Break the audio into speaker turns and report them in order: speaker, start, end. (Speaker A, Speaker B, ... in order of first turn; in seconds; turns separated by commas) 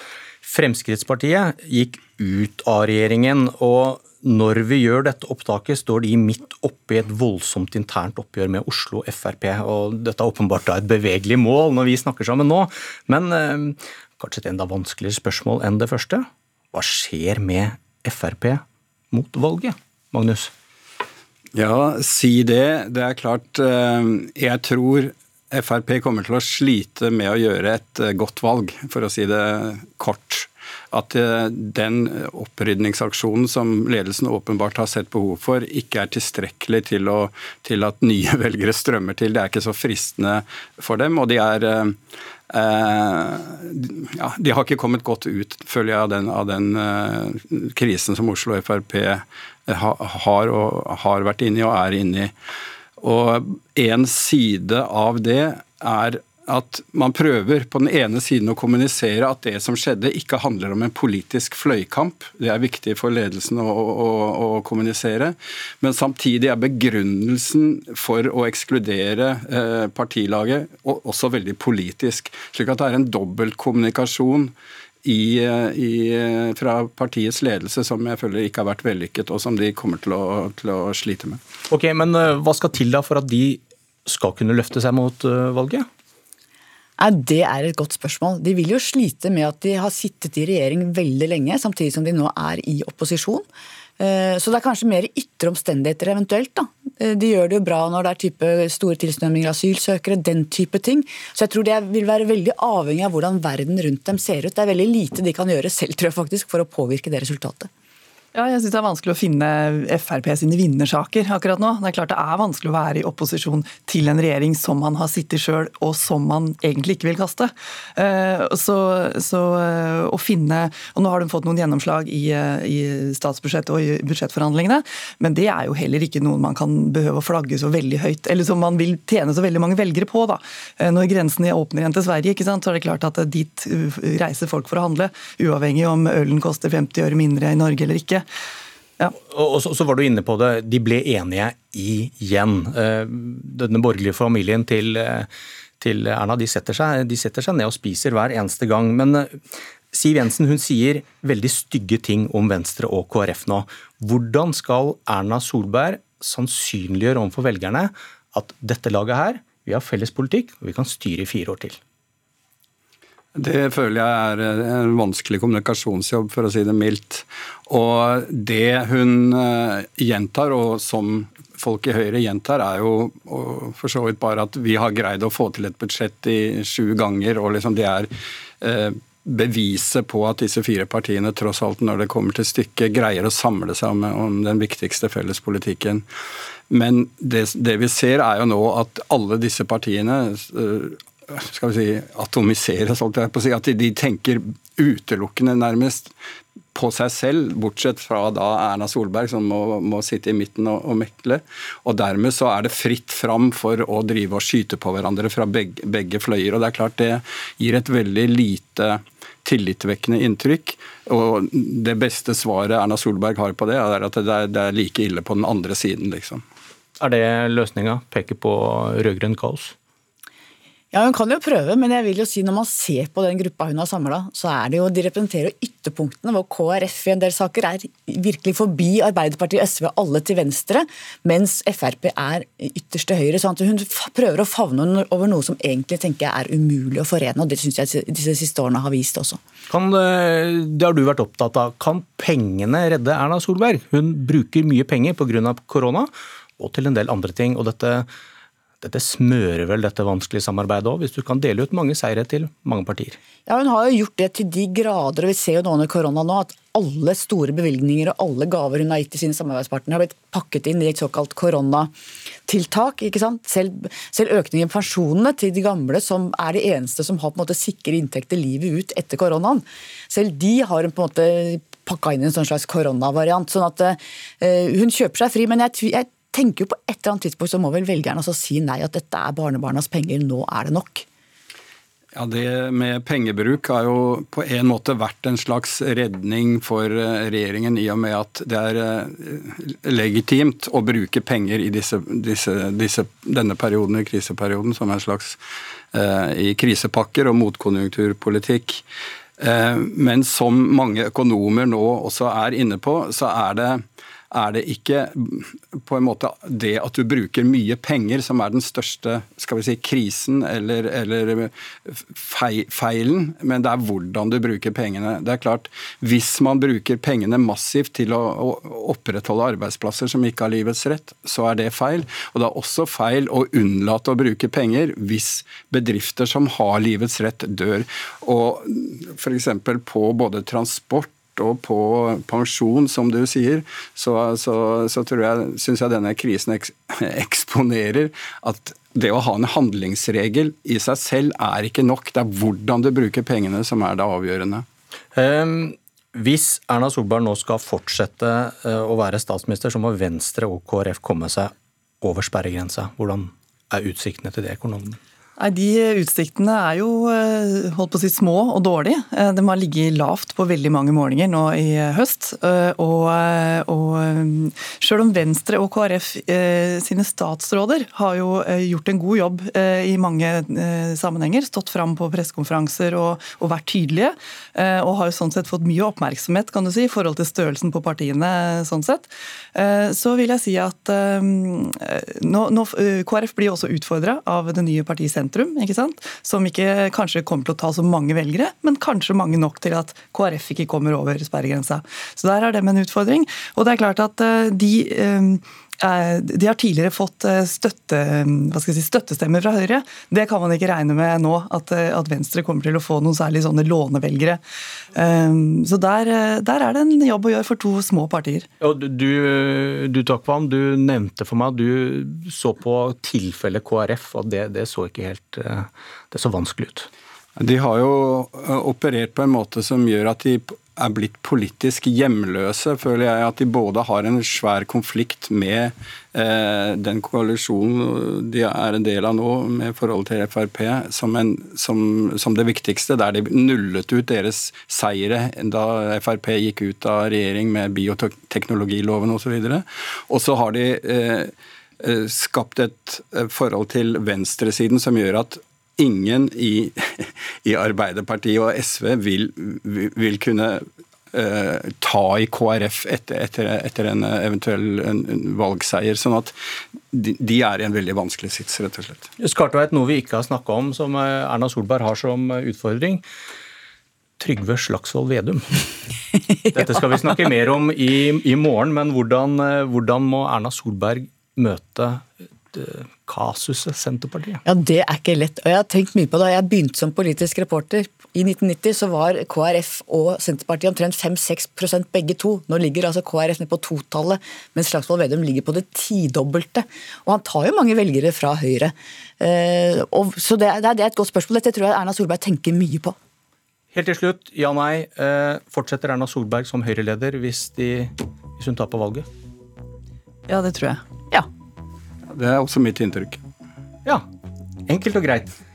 Speaker A: 0.4-20.5, Speaker B: 21.6-42.0, Speaker B: 42.5-52.3, Speaker B: 53.0-74.5, Speaker B: 75.0-81.4, Speaker A: 81.7-85.9, Speaker C: 87.0-93.4, Speaker C: 94.0-107.7, Speaker D: 108.3-138.2, Speaker A: 139.2-145.3, Speaker A: 145.8-149.4, Speaker A: 149.9-161.8, Speaker B: 163.4-178.1, Speaker B: 178.6-186.1, Speaker B: 186.7-196.1, Speaker B: 196.8-216.4, Speaker A: 217.0-219.7, Speaker C: 220.9-239.4, Speaker A: 239.7-248.1, Speaker A: 248.8-253.2, Speaker C: 253.5-261.9, Speaker C: 262.5-281.1, Speaker B: 282.2-295.4, Speaker B: 295.9-298.8, Speaker B: 299.4-344.6, Speaker A: 345.1-355.0, Speaker D: 355.4-404.4, Speaker D: 405.0-408.5, Speaker A: 408.6-416.9, Speaker B: 417.4-441.3, Speaker B: 441.8-450.6, Speaker B: 451.1-456.3, Speaker B: 456.9-459.1, Speaker A: 459.2-463.0, Speaker A: 464.2-465.5, Speaker A: 466.6-474.4, Speaker C: 474.5-492.9, Speaker A: 493.7-499.1, Speaker D: 500.3-501.3, Speaker B: 502.1-503.2, Speaker A: 504.7-505.4